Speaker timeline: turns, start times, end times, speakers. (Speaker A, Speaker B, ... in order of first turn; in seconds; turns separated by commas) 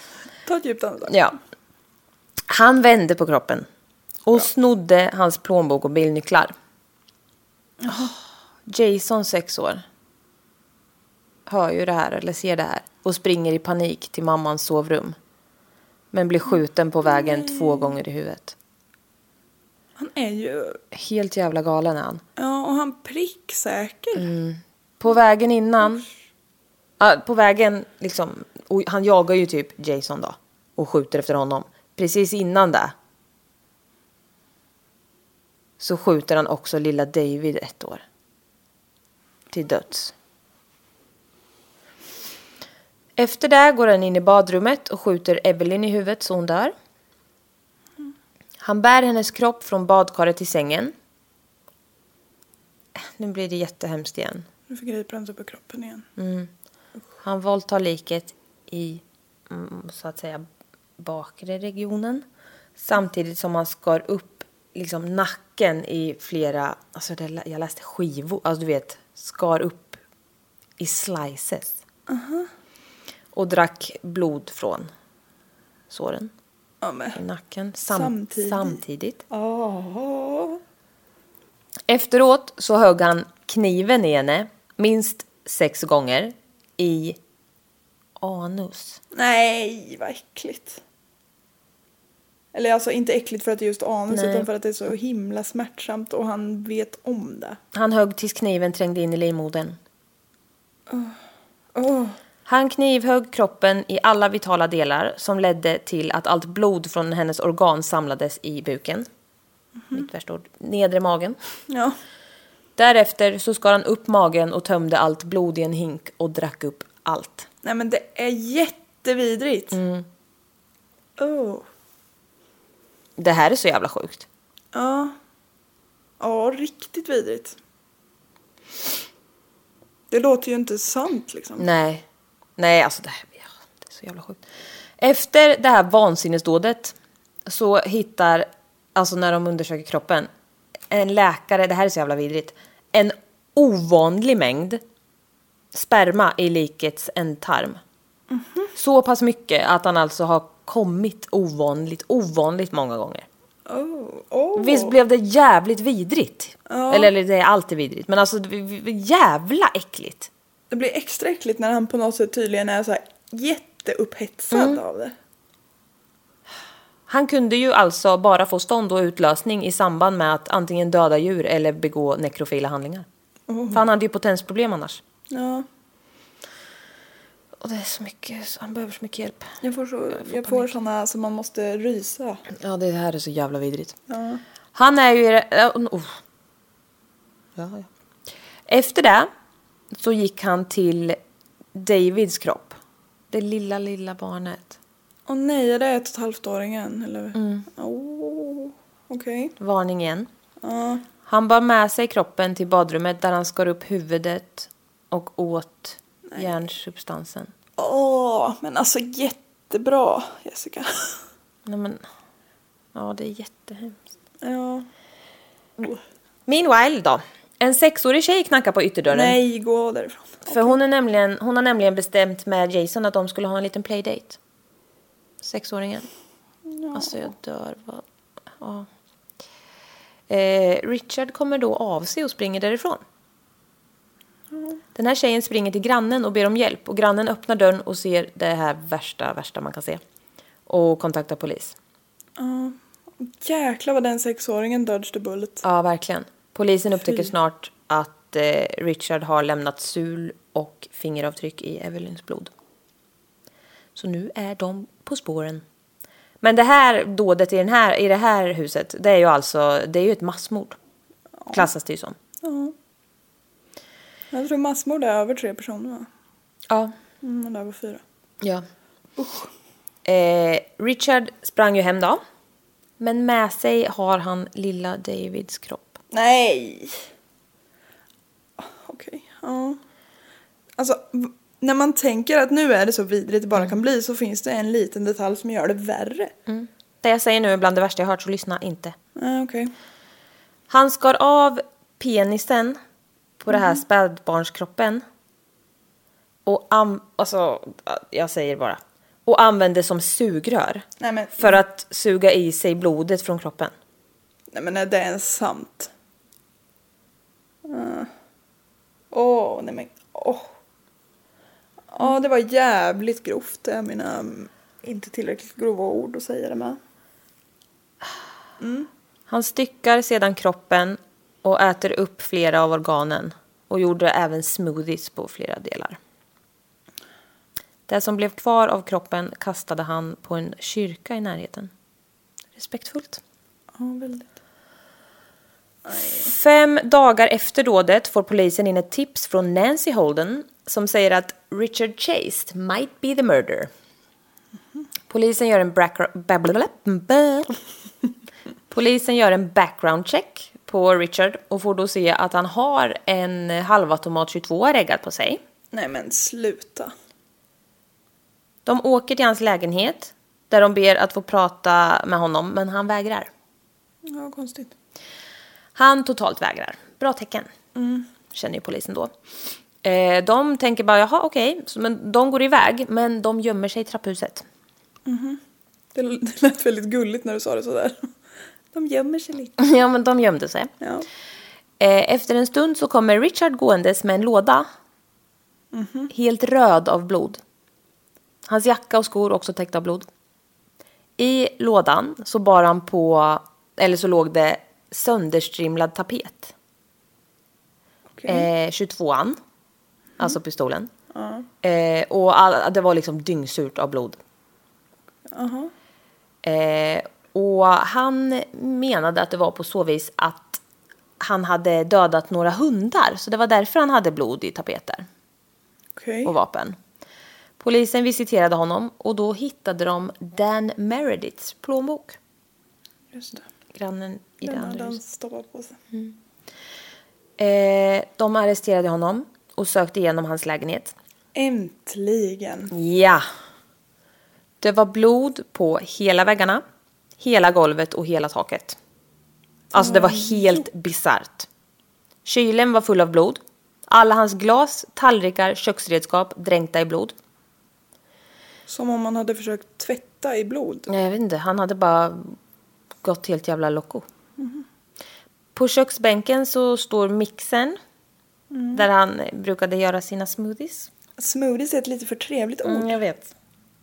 Speaker A: 0.5-1.1, Speaker B: 1.1-1.4, Speaker B: 2.5-3.6, Speaker B: 4.2-6.5, Speaker A: 7.8-8.1, Speaker B: 8.7-9.8, Speaker B: 11.5-15.2, Speaker B: 16.1-18.5, Speaker A: 17.1-17.9, Speaker A: 20.0-20.8, Speaker B: 20.9-22.2, Speaker A: 22.4-24.3, Speaker B: 24.1-26.0, Speaker B: 27.0-32.9, Speaker B: 35.8-38.0, Speaker B: 39.5-40.1, Speaker B: 43.2-46.7, Speaker B: 48.6-50.9, Speaker B: 53.0-54.5, Speaker A: 54.7-56.0, Speaker B: 56.2-56.5, Speaker B: 57.2-60.4, Speaker B: 61.0-62.2, Speaker B: 62.8-70.0, Speaker B: 70.8-71.8, Speaker A: 72.1-72.5, Speaker B: 73.3-74.9, Speaker B: 75.9-76.3, Speaker A: 76.8-77.2, Speaker B: 77.1-79.2, Speaker A: 77.9-78.8, Speaker A: 79.3-80.6, Speaker B: 81.9-87.2, Speaker B: 88.2-89.0, Speaker A: 89.1-90.8, Speaker A: 92.5-97.6, Speaker B: 94.1-94.5, Speaker B: 97.7-99.8, Speaker A: 100.9-101.2, Speaker A: 101.7-102.2, Speaker B: 102.5-109.1, Speaker B: 109.9-111.4, Speaker A: 111.7-112.0, Speaker B: 112.8-117.5, Speaker A: 117.6-119.8, Speaker B: 119.7-120.0, Speaker A: 121.2-121.6, Speaker B: 123.2-124.2, Speaker A: 124.7-125.1, Speaker A: 126.2-127.5, Speaker A: 130.1-131.6, Speaker B: 131.6-132.0, Speaker B: 132.6-134.4, Speaker B: 135.0-136.9, Speaker B: 137.4-140.3, Speaker B: 140.9-144.8, Speaker B: 145.7-147.8, Speaker A: 148.3-148.7, Speaker B: 148.8-153.2, Speaker A: 153.7-154.9, Speaker B: 154.6-160.3, Speaker A: 156.7-157.1, Speaker A: 160.7-165.1, Speaker B: 164.5-164.8, Speaker B: 167.1-173.1, Speaker A: 173.5-173.8, Speaker B: 173.7-175.0, Speaker A: 175.3-175.7, Speaker B: 177.6-179.5, Speaker A: 179.6-182.4, Speaker B: 180.2-180.7, Speaker B: 182.6-183.9, Speaker A: 184.1-184.4, Speaker B: 184.7-186.2, Speaker B: 187.6-187.9, Speaker B: 188.7-189.3, Speaker B: 189.9-191.2, Speaker B: 191.7-192.8, Speaker B: 193.3-194.8, Speaker A: 195.3-199.5, Speaker B: 197.3-197.7, Speaker B: 199.6-200.3, Speaker A: 200.6-201.0, Speaker B: 201.3-207.5, Speaker A: 207.8-211.2, Speaker B: 211.7-212.0, Speaker B: 212.9-214.0, Speaker A: 214.4-214.9, Speaker B: 216.5-219.4, Speaker A: 219.1-220.8, Speaker B: 220.5-224.4, Speaker B: 225.4-226.1, Speaker A: 226.7-227.3, Speaker B: 226.9-228.0, Speaker B: 228.6-228.9, Speaker B: 230.3-233.0, Speaker A: 234.5-234.8, Speaker B: 234.9-240.0, Speaker B: 240.7-241.7, Speaker A: 242.4-245.6, Speaker B: 245.6-252.5, Speaker B: 253.9-255.6, Speaker B: 256.4-260.8, Speaker B: 261.5-262.2, Speaker A: 262.4-262.7, Speaker A: 264.3-266.1, Speaker A: 267.2-268.0, Speaker A: 269.2-269.5, Speaker B: 270.0-272.2, Speaker B: 273.0-276.0, Speaker A: 276.1-276.9, Speaker A: 278.6-279.8, Speaker A: 280.8-286.3, Speaker B: 286.5-288.9, Speaker A: 289.1-289.7, Speaker B: 290.7-292.8, Speaker B: 293.4-295.0, Speaker A: 293.5-293.8, Speaker B: 296.4-300.8, Speaker A: 301.0-301.6, Speaker B: 301.4-303.7, Speaker A: 304.5-305.9, Speaker A: 307.7-308.1, Speaker A: 309.1-310.5, Speaker A: 311.9-316.8, Speaker A: 318.6-318.9, Speaker B: 319.3-326.0, Speaker B: 327.9-331.7, Speaker B: 332.6-333.2, Speaker A: 333.8-334.2, Speaker A: 335.9-336.3, Speaker B: 336.1-343.7, Speaker B: 345.1-347.6, Speaker B: 348.7-355.4, Speaker A: 355.7-356.9, Speaker B: 358.6-363.3, Speaker A: 364.1-364.7, Speaker B: 365.8-367.5, Speaker A: 367.8-368.1, Speaker B: 368.3-369.1, Speaker B: 369.8-374.4, Speaker A: 375.1-375.4, Speaker A: 375.9-378.1, Speaker A: 378.7-379.5, Speaker B: 379.6-380.7, Speaker B: 381.8-384.7, Speaker A: 385.7-386.1, Speaker B: 386.1-387.4, Speaker B: 388.4-390.1, Speaker B: 391.2-396.5, Speaker A: 398.1-398.5, Speaker B: 398.3-399.4, Speaker B: 400.2-400.9, Speaker A: 401.1-401.4, Speaker B: 401.6-404.2, Speaker A: 405.3-405.7, Speaker B: 406.4-410.6, Speaker B: 411.2-415.1, Speaker A: 415.9-416.3, Speaker B: 416.2-416.8, Speaker B: 417.6-422.2, Speaker A: 423.1-423.4, Speaker B: 423.7-425.0, Speaker A: 424.4-425.8, Speaker B: 427.4-430.9, Speaker A: 431.3-432.7, Speaker B: 432.7-433.2, Speaker B: 434.6-436.6, Speaker B: 437.2-438.8, Speaker B: 439.7-441.5, Speaker A: 439.7-440.7, Speaker B: 442.2-447.1, Speaker A: 448.7-450.9, Speaker B: 450.9-452.4, Speaker B: 453.0-454.0, Speaker A: 454.4-454.6, Speaker B: 455.5-457.8, Speaker A: 458.5-458.8, Speaker B: 458.7-460.9, Speaker A: 461.2-462.9, Speaker B: 462.6-463.3